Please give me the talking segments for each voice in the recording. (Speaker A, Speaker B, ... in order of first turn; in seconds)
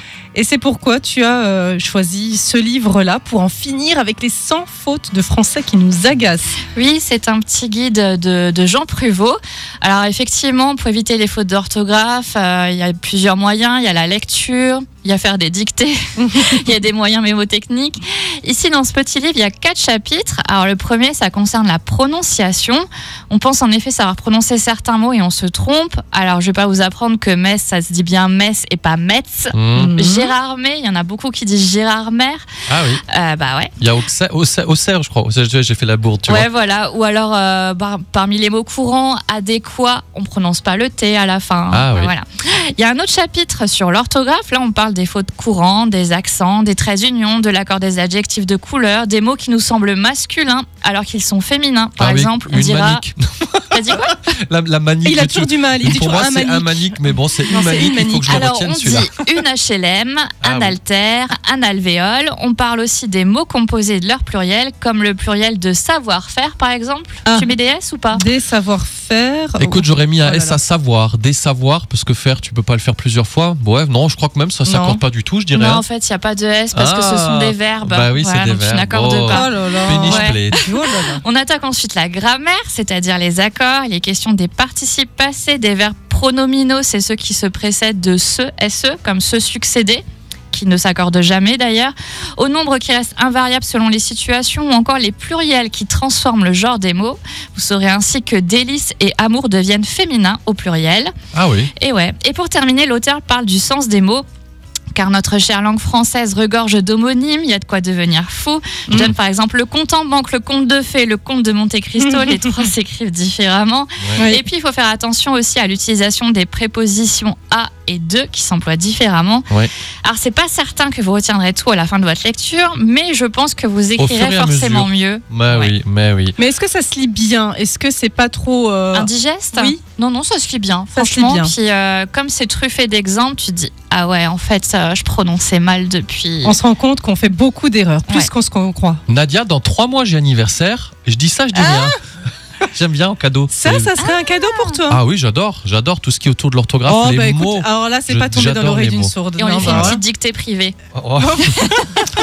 Speaker A: 0.3-6.6, 29.7-30.3, 55.0-58.5, 67.2-67.5, 68.1-70.6, 74.7-75.0, 79.3-81.2, 108.9-109.1, 112.0-112.7, 114.2-114.4, 126.4-129.8, 130.9-131.5, 136.4-139.0, 141.5-141.9, 143.5-145.0, 146.8-150.0, 151.2-151.9
Speaker B: 6.7-32.5, 33.1-33.7, 36.3-53.0, 53.7-54.1, 57.6-68.3, 75.5-101.1, 101.8-104.2, 104.9-119.5, 120.0-125.7, 128.9-136.6, 144.0-144.8, 149.4-150.8
Speaker C: 29.5-30.0, 32.7-33.0, 33.8-36.5, 41.7-42.1, 52.0-59.1, 60.4-60.8, 69.6-75.8, 76.7-80.6, 101.3-101.7, 114.0-114.3, 124.0-126.3, 139.1-142.0, 142.7-143.9, 144.9-150.0, 150.9-151.8